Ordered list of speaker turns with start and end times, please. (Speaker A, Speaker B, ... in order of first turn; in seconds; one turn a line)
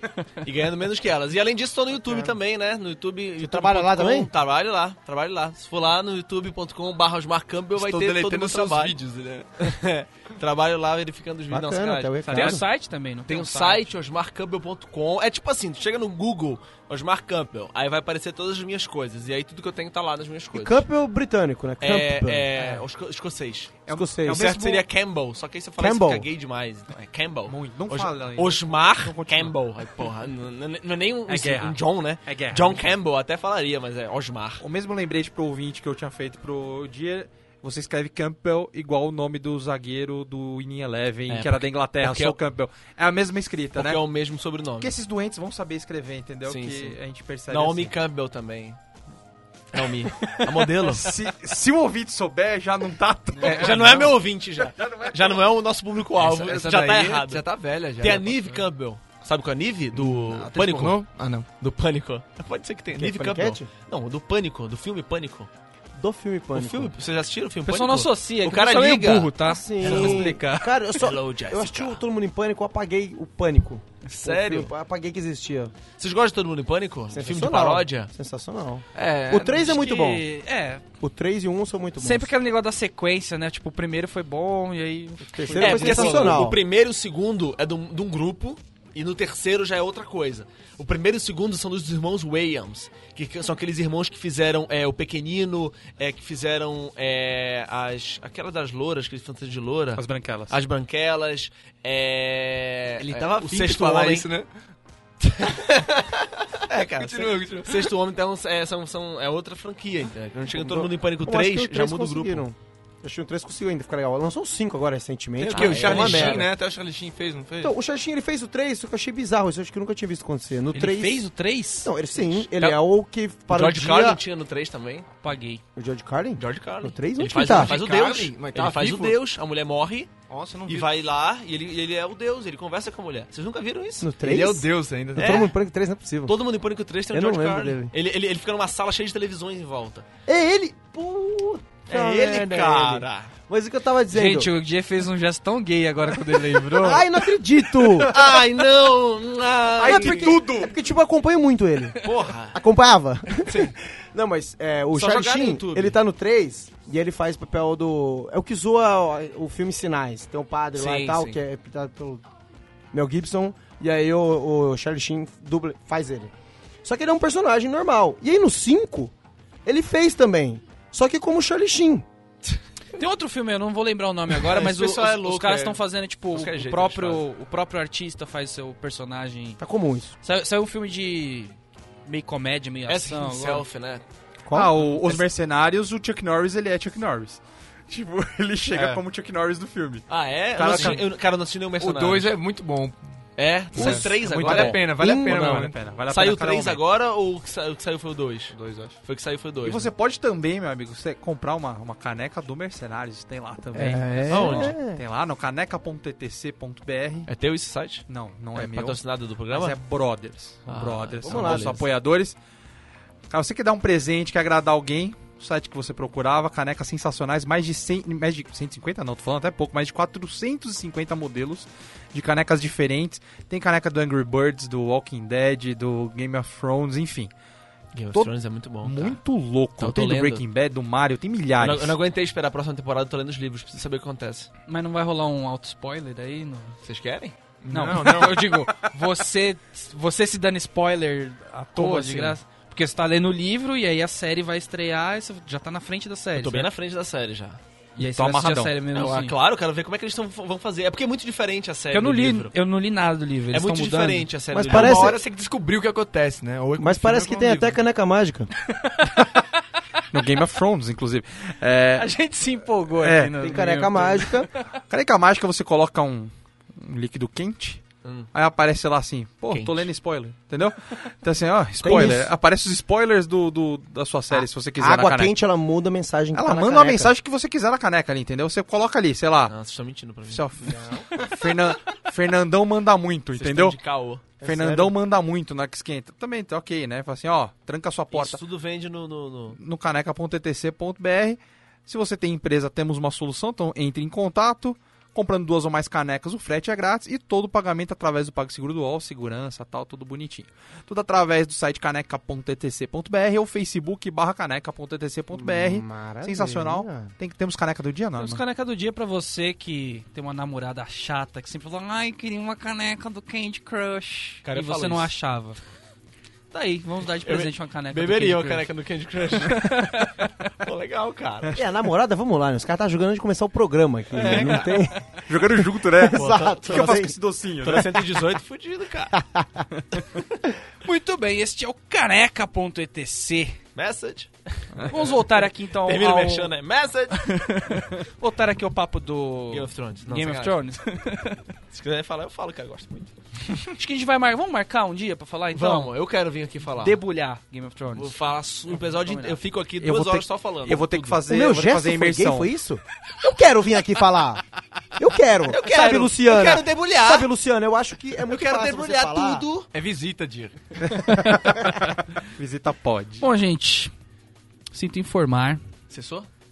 Speaker A: 0.4-9.0
Speaker B: 2.0-2.4
Speaker B: 3.4-4.3
Speaker C: 7.8-9.6
Speaker A: 9.6-12.6
Speaker B: 11.5-12.7
Speaker D: 12.3-13.9
Speaker A: 13.3-20.9
Speaker B: 20.5-22.5
Speaker A: 21.8-34.6
Speaker E: 22.6-22.8
Speaker E: 23.9-24.9
Speaker B: 23.9-24.5
Speaker B: 25.8-26.3
Speaker E: 27.5-29.6
Speaker E: 31.3-32.9
Speaker E: 34.6-44.0
Speaker A: 41.3-42.4
Speaker A: 43.7-45.0
Speaker E: 44.8-47.9
Speaker A: 46.5-48.8
Speaker A: 49.7-51.2
Speaker E: 50.3-55.4
Speaker A: 53.4-57.4
Speaker C: 53.4-53.9
Speaker C: 56.2-58.6
Speaker A: 58.0-61.0
Speaker C: 60.0-61.5
Speaker A: 61.6-65.5
Speaker B: 62.9-63.7
Speaker B: 66.0-66.9
Speaker A: 66.5-70.3
Speaker D: 67.7-70.7
Speaker B: 69.4-75.7
Speaker A: 71.0-72.0
Speaker A: 74.1-74.7
Speaker A: 76.0-78.1
Speaker B: 77.1-80.2
Speaker C: 79.0-79.7
Speaker D: 79.5-80.8
Speaker B: 81.0-82.3
Speaker D: 82.0-86.4
Speaker B: 85.2-86.6
Speaker A: 85.5-104.3
Speaker C: 85.7-86.1
Speaker E: 100.0-100.6
Speaker C: 103.0-104.5
Speaker A: 105.2-112.5
Speaker C: 107.0-107.9
Speaker B: 110.6-116.5
Speaker C: 115.4-117.8
Speaker A: 115.5-116.5
Speaker B: 117.6-121.2
Speaker D: 120.7-121.9
Speaker B: 121.8-124.2
Speaker A: 122.3-122.8
Speaker A: 123.5-125.1
Speaker D: 125.2-125.6
Speaker B: 125.8-127.7
Speaker A: 126.4-130.1
Speaker C: 127.4-129.2
Speaker C: 130.3-130.9
Speaker A: 130.7-134.3
Speaker B: 134.0-136.4
Speaker C: 134.2-135.5
Speaker A: 135.2-135.5
Speaker A: 136.3-140.1
Speaker B: 137.1-137.9
Speaker B: 140.3-144.5
Speaker A: 141.9-143.3
Speaker D: 144.1-147.1
Speaker B: 146.8-148.2
Speaker A: 148.0-150.4
Speaker E: 149.8-150.8
Speaker B: 149.8-152.0
Speaker A: 152.0-152.6
Speaker B: 152.5-162.2
Speaker A: 153.4-153.8
Speaker A: 154.9-156.0
Speaker D: 160.8-161.4
Speaker B: 162.9-166.3
Speaker B: 166.8-169.1
Speaker B: 169.7-172.1
Speaker D: 173.0-179.6
Speaker A: 174.3-175.8
Speaker A: 176.3-177.2
Speaker B: 179.6-180.2
Speaker D: 180.2-183.6
Speaker A: 182.9-184.1
Speaker B: 184.4-185.2
Speaker E: 184.5-191.1
Speaker A: 188.7-189.0
Speaker A: 190.1-192.4
Speaker C: 190.7-191.0
Speaker C: 191.8-193.0
Speaker A: 193.4-199.9
Speaker C: 193.7-195.8
Speaker E: 193.8-196.8
Speaker B: 195.0-195.6
Speaker E: 198.6-198.9
Speaker C: 198.6-198.9
Speaker E: 199.6-207.3
Speaker B: 203.8-205.0
Speaker A: 204.3-204.8
Speaker A: 207.3-209.8
Speaker E: 208.1-209.0
Speaker E: 209.5-212.4
Speaker A: 210.7-211.8
Speaker B: 211.2-211.8
Speaker E: 213.3-227.3
Speaker A: 227.9-229.2
Speaker E: 228.8-231.9
Speaker A: 229.8-230.4
Speaker A: 231.6-234.5
Speaker D: 234.7-236.8
Speaker A: 236.8-237.4
Speaker C: 237.6-238.5
Speaker D: 237.7-246.7
Speaker A: 241.8-242.3
Speaker E: 241.9-242.3
Speaker A: 246.3-247.6
Speaker D: 248.0-249.3
Speaker E: 248.0-248.7
Speaker A: 248.9-252.5
Speaker D: 251.9-254.3
Speaker A: 253.5-255.2
Speaker B: 254.5-255.2
Speaker C: 254.6-257.8
Speaker B: 256.8-258.5
Speaker D: 258.7-259.4
Speaker E: 260.1-262.1
Speaker D: 262.0-264.8
Speaker E: 263.0-263.6
Speaker B: 263.4-264.5
Speaker E: 264.9-275.3
Speaker A: 268.0-268.3
Speaker A: 269.5-269.9
Speaker B: 271.8-272.3
Speaker B: 274.3-277.1
Speaker E: 276.3-279.6
Speaker A: 279.5-280.9
Speaker E: 280.3-283.8
Speaker B: 280.6-281.1
Speaker A: 283.3-284.3
Speaker B: 284.4-284.9
Speaker E: 284.4-288.4
Speaker A: 288.1-289.6
Speaker E: 289.6-308.4
Speaker B: 305.3-307.1
Speaker D: 308.2-315.6
Speaker A: 314.4-315.1
Speaker D: 316.5-318.7
Speaker A: 317.2-319.9
Speaker D: 319.4-320.5
Speaker A: 320.6-321.6
Speaker B: 321.5-327.2
Speaker A: 324.2-324.7
Speaker D: 324.2-324.9
Speaker E: 325.3-328.1
Speaker A: 326.1-329.2
Speaker B: 329.1-329.7
Speaker D: 330.8-333.6
Speaker A: 333.8-334.3
Speaker A: 334.8-337.4
Speaker D: 334.9-336.5
Speaker D: 337.3-341.4
Speaker A: 339.5-340.7
Speaker A: 341.7-343.1
Speaker D: 343.7-345.9
Speaker A: 345.5-347.0
Speaker D: 346.8-348.2
Speaker A: 347.9-351.2
Speaker D: 348.7-349.4
Speaker E: 349.8-352.5
Speaker B: 351.3-354.4
Speaker B: 355.0-359.4
Speaker A: 355.5-357.3
Speaker A: 358.3-359.7
Speaker C: 359.7-360.8
Speaker E: 361.1-363.3
Speaker B: 361.3-361.6
Speaker D: 363.2-363.9
Speaker D: 364.7-365.6
Speaker A: 365.9-366.3